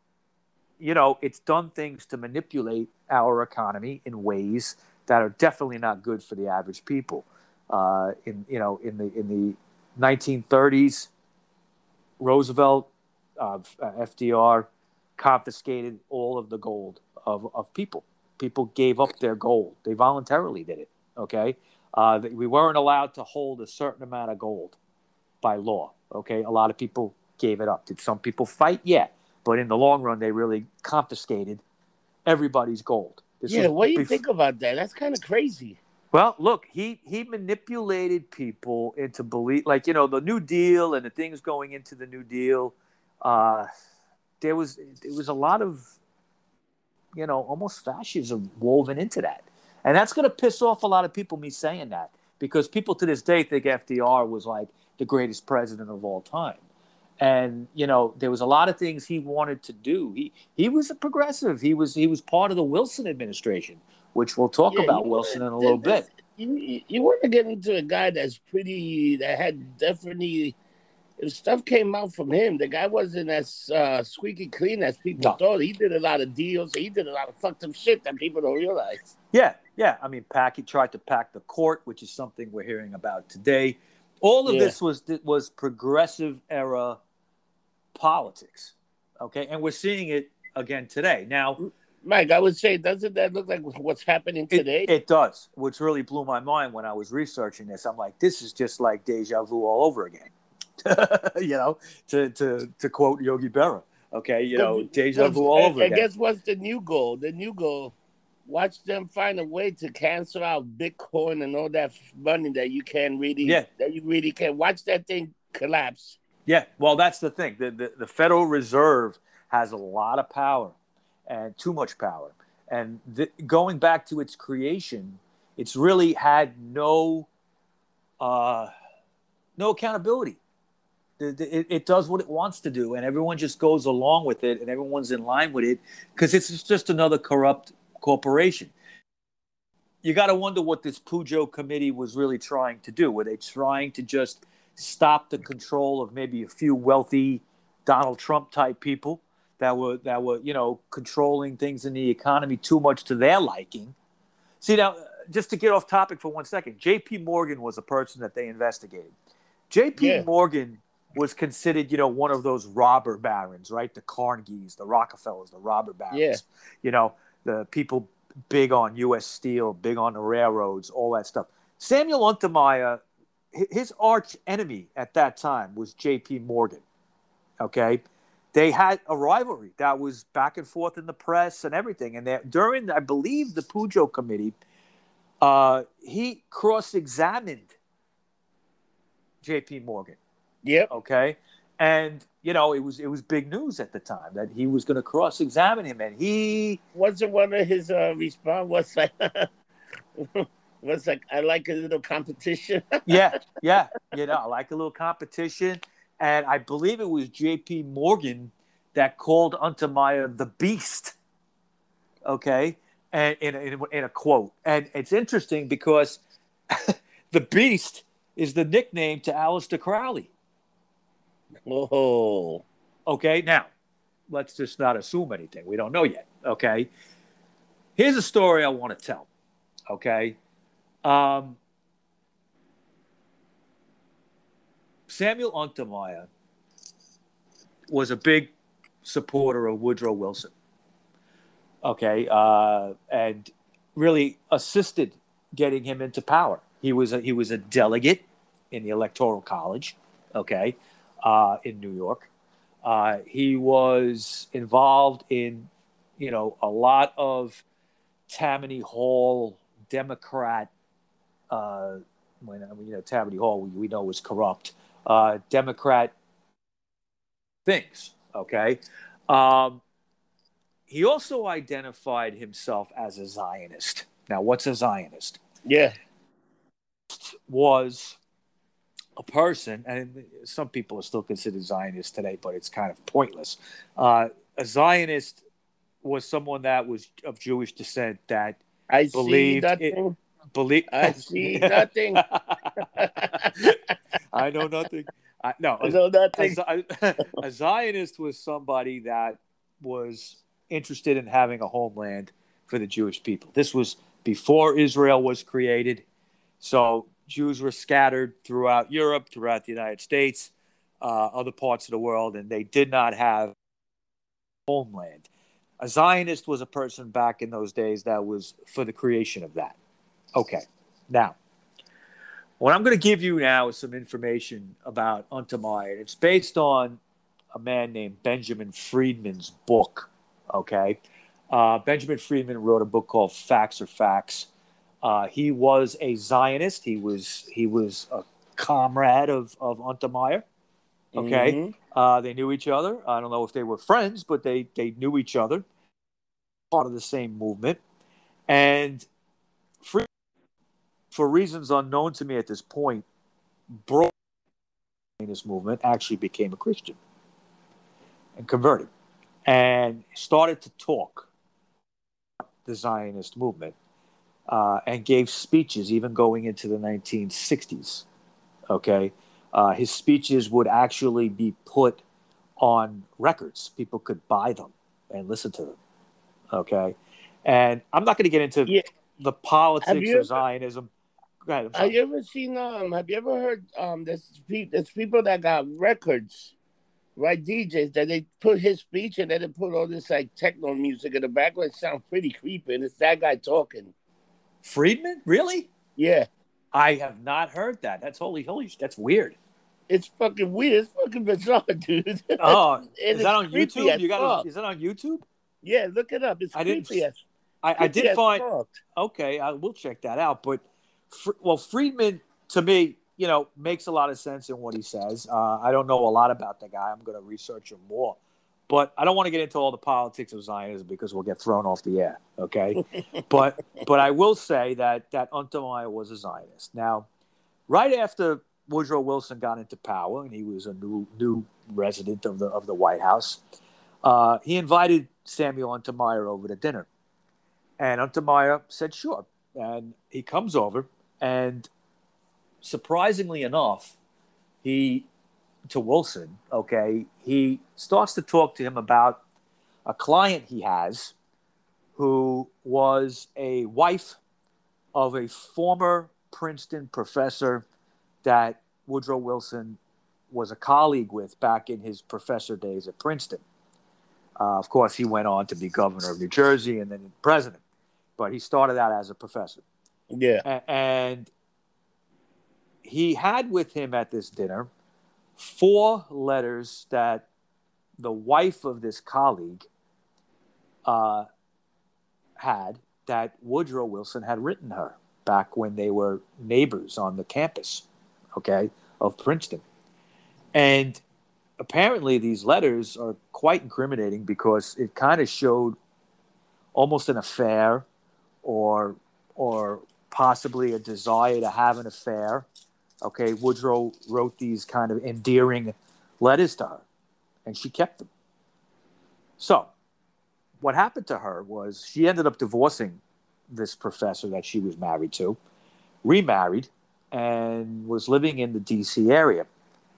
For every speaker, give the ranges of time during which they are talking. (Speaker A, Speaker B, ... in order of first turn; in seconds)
Speaker A: 0.8-11.1, 12.2-24.8, 25.4-31.6, 32.3-34.2, 36.1-43.7, 44.4-46.0, 47.1-56.6, 57.2-66.1, 79.3-87.0, 88.0-91.6, 94.5-106.0, 116.5-120.8, 121.3-127.3, 128.2-128.7, 129.6-130.4, 131.2-138.7, 140.0-153.9, 154.6-159.1, 159.7-173.0, 173.5-176.8, 177.6-178.0, 178.5-184.6, 185.4-187.8, 189.4-190.2, 190.9-196.8, 203.1-211.2, 212.2-220.3, 223.1-223.7, 224.3-226.9, 228.0-229.3, 229.9-230.4, 231.0-231.6, 235.1-236.3, 237.9-238.5, 239.0-240.5, 241.8-252.3, 252.8-257.6, 258.3-260.7, 261.5-266.1, 267.7-269.8, 270.9-275.4, 277.1-278.2, 279.2-285.4, 286.0-288.6, 289.1-290.0, 290.5-293.8, 294.3-306.0, 306.6-313.6, 314.7-315.3, 315.8-319.8, 320.4-321.4, 322.6-327.0, 327.5-334.5, 335.0-340.4, 341.2-345.6, 346.7-347.8, 348.5-349.1, 349.8-350.1, 351.1-353.1, 353.8-354.1, 355.2-357.0, 358.4-358.9, 359.5-361.3, 362.6-363.8, 364.5-368.1, 368.7-372.0, 372.6-375.8, 376.5-380.9, 381.5-382.0, 394.6-395.7, 396.7-399.4, 402.4-405.2, 406.5-407.0, 407.6-418.2, 418.7-427.1, 427.7-433.4, 434.0-436.9, 437.8-441.7, 442.6-444.0, 444.6-445.1, 445.7-449.2, 449.9-451.1, 452.0-454.2, 454.9-457.6, 458.2-459.8, 460.3-463.4, 464.4-467.6, 468.2-469.6, 470.4-471.3, 472.8-474.7, 475.4-477.3, 478.0-479.7, 480.9-481.3, 482.4-489.6, 490.5-491.0, 491.6-495.8, 496.8-497.9, 498.4-502.5, 503.0-506.9, 507.4-508.1, 509.4-509.7, 510.6-515.4, 516.0-519.5
Speaker B: 33.5-35.8, 64.7-70.6, 71.2-79.1, 84.5-84.8, 91.6-94.9, 104.5-107.9, 108.5-116.2, 160.0-160.3, 166.1-166.4, 190.6-190.9, 196.9-199.5, 200.2-203.2, 221.7-222.7, 275.6-275.9, 288.9-290.2, 290.9-292.3, 292.8-293.7, 295.8-296.6, 341.1-341.7, 379.8-380.3, 381.7-386.5, 387.2-393.9, 396.0-396.3, 399.9-404.4, 405.6-407.2, 407.8-408.8, 470.1-470.4